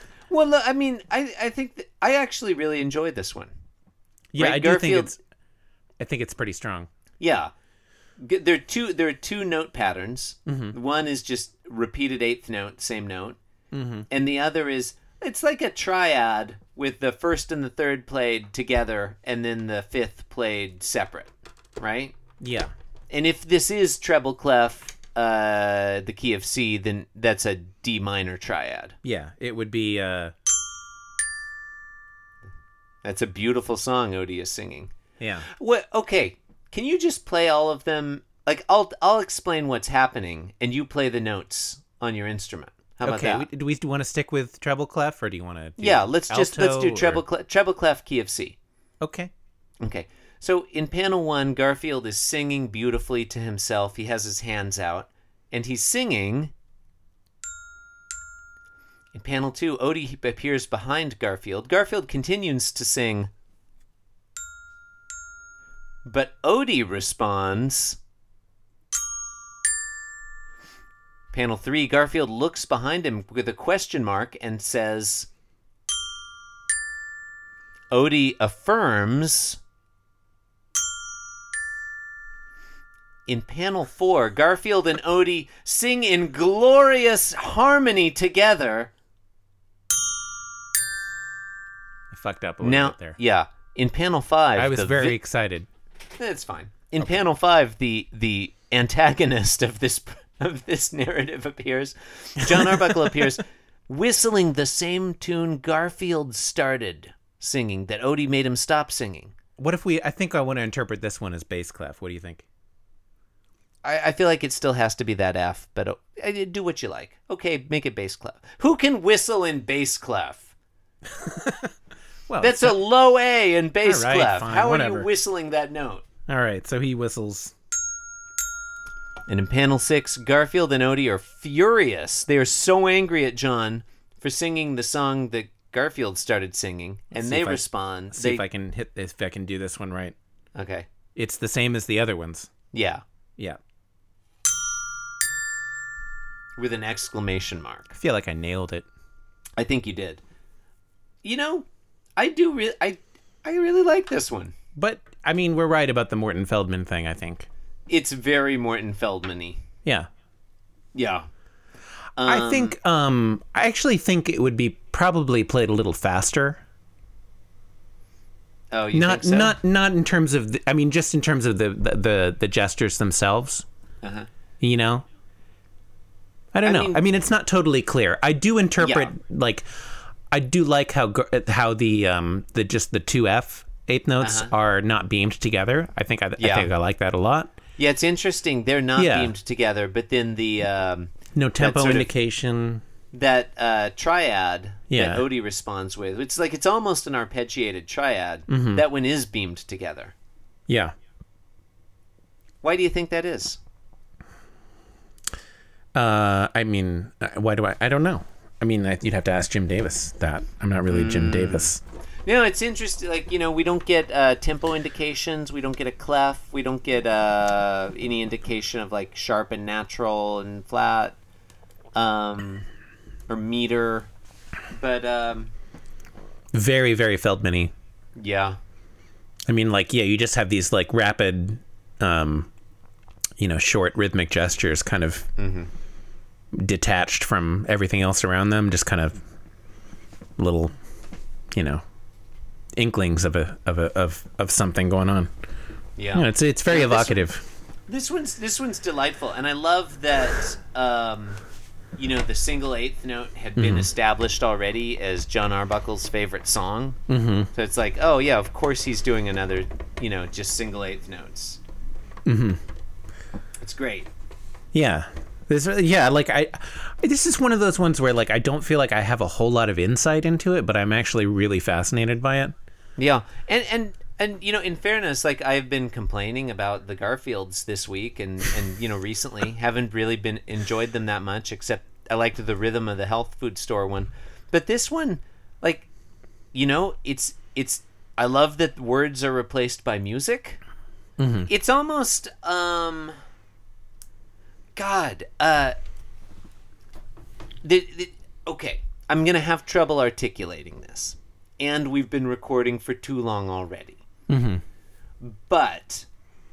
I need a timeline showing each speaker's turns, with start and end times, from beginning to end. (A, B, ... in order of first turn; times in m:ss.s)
0:00.3-0:03.5 A
0:04.3-0:05.2 B
0:04.4-0:05.1 A
0:06.0-0:06.9 B
0:07.2-0:07.5 A
0:08.2-0:13.4 A
0:10.5-0:10.7 B
0:13.7-0:14.1 B
0:14.1-0:22.1 A
0:22.4-0:22.7 B
0:23.1-0:29.0 A
0:29.0-0:30.3 B
0:33.0-0:34.9 A
0:35.2-0:35.5 B
0:35.5-0:43.5 A
0:43.0-0:47.2 B
0:45.8-0:48.6 A
0:49.0-0:49.3 B
0:49.8-0:56.5 A
0:59.1-1:03.3 A
1:06.0-1:08.0 A
1:11.3-1:15.3 A
1:17.9-1:19.6 A
1:23.3-1:28.9 A
1:32.1-1:33.2 B
1:32.6-1:35.2 A
1:34.6-1:35.7 B
1:36.2-1:49.3 A
1:42.4-1:43.2 B
1:49.6-1:52.4 B
1:53.8-2:00.5 A
2:01.1-2:01.7 B
2:02.3-2:02.8 B
2:02.4-2:06.0 A
2:03.8-2:05.1 B
2:06.3-2:07.5 B
2:09.3-2:18.4 A
2:17.1-2:20.1 B
2:20.5-2:20.9 A
2:21.2-2:22.5 B
2:22.7-2:23.0 A
2:26.6-2:28.0 A
2:28.0-2:28.8 B
2:29.6-2:30.2 A
2:31.2-2:34.5 A
2:34.8-2:37.5 B
2:37.9-2:39.6 A
2:40.9-2:41.3 A
2:42.2-2:42.7 A
2:42.2-2:46.6 B
2:48.7-2:49.6 A
2:48.9-2:53.6 B
2:54.0-2:54.3 A
2:54.6-2:55.0 B
2:56.5-2:59.6 B
2:56.6-2:57.0 A
2:58.8-2:59.1 A
3:00.3-3:07.6 B
3:04.2-3:04.5 A
3:06.4-3:06.7 A
3:07.8-3:12.1 A
3:09.0-3:09.3 B
3:11.3-3:12.8 B
3:13.1-3:20.1 A
3:14.9-3:15.2 B
3:18.5-3:18.8 B
3:20.7-3:20.9 B
3:22.6-3:23.6 A
3:25.9-3:31.8 B
3:30.9-3:31.7 A
3:32.2-3:41.2 A
3:41.9-3:42.6 A
3:43.3-3:44.1 A
3:44.7-3:45.5 A
3:46.5-3:47.7 B
3:48.2-3:48.6 A
3:49.5-3:52.5 B
3:53.4-3:55.3 B
3:55.4-3:55.7 A
3:56.5-3:59.2 B
4:00.4-4:00.7 B
4:01.5-4:01.8 B
4:02.8-4:05.3 B
4:06.0-4:07.2 A
4:06.1-4:07.4 B
4:07.9-4:11.4 A
4:12.0-4:17.0 A
4:13.6-4:13.9 B
4:17.1-4:17.5 B
4:17.5-4:21.6 A
4:22.2-4:22.6 B
4:23.6-4:24.1 A
4:24.7-4:32.5 B
4:33.0-4:45.9 A
4:46.5-4:50.6 A
4:51.2-4:51.5 B
4:51.5-4:53.1 A
4:54.8-4:55.7 A
4:57.6-5:04.0 A
5:04.3-5:04.6 B
5:05.2-5:06.1 A